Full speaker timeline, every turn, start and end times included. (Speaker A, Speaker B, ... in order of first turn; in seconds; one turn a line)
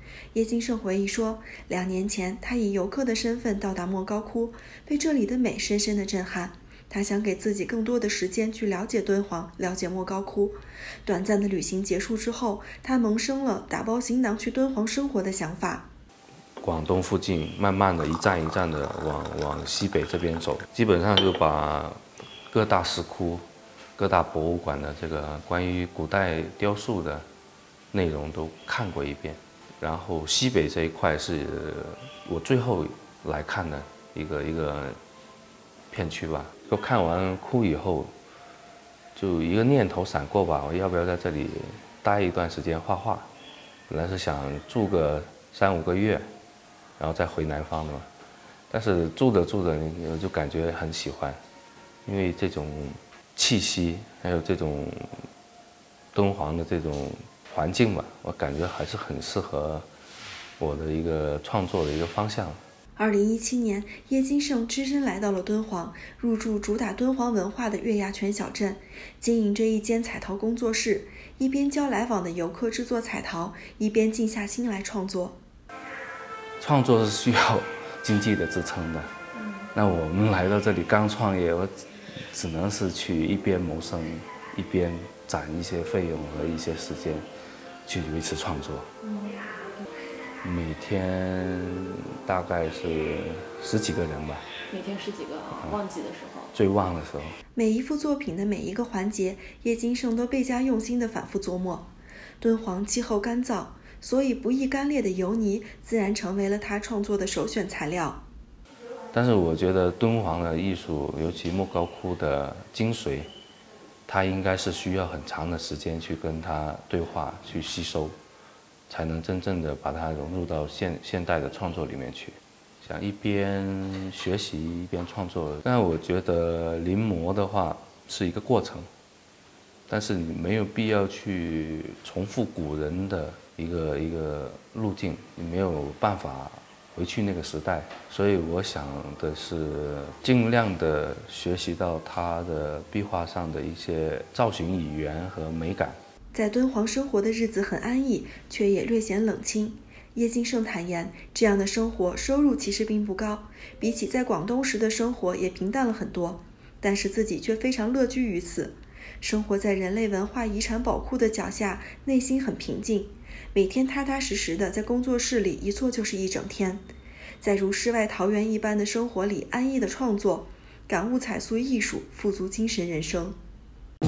Speaker A: 0.3-15.9
Speaker B: 16.6-23.4
Speaker B: 24.0-27.2
Speaker B: 27.9-35.0
Speaker B: 35.9-38.1
Speaker B: 39.1-43.3
Speaker B: 43.9-46.2
Speaker B: 47.0-48.1
Speaker B: 48.7-51.4
Speaker B: 52.0-55.2
Speaker B: 56.1-59.9
Speaker B: 60.6-62.6
Speaker A: 63.0-75.4
Speaker B: 76.6-79.1
Speaker B: 79.7-81.7
Speaker B: 82.3-87.2
Speaker B: 87.8-88.9
Speaker C: 89.0-89.5
Speaker B: 90.4-94.5
Speaker C: 94.7-96.5
Speaker B: 95.5-95.8
Speaker B: 96.5-97.4
Speaker A: 97.5-101.9
Speaker A: 102.4-108.2
Speaker B: 109.1-113.3
Speaker B: 114.1-118.1
Speaker B: 118.9-128.9
Speaker B: 129.9-146.0
Speaker A: 146.3-166.8
Speaker A: 167.4-173.3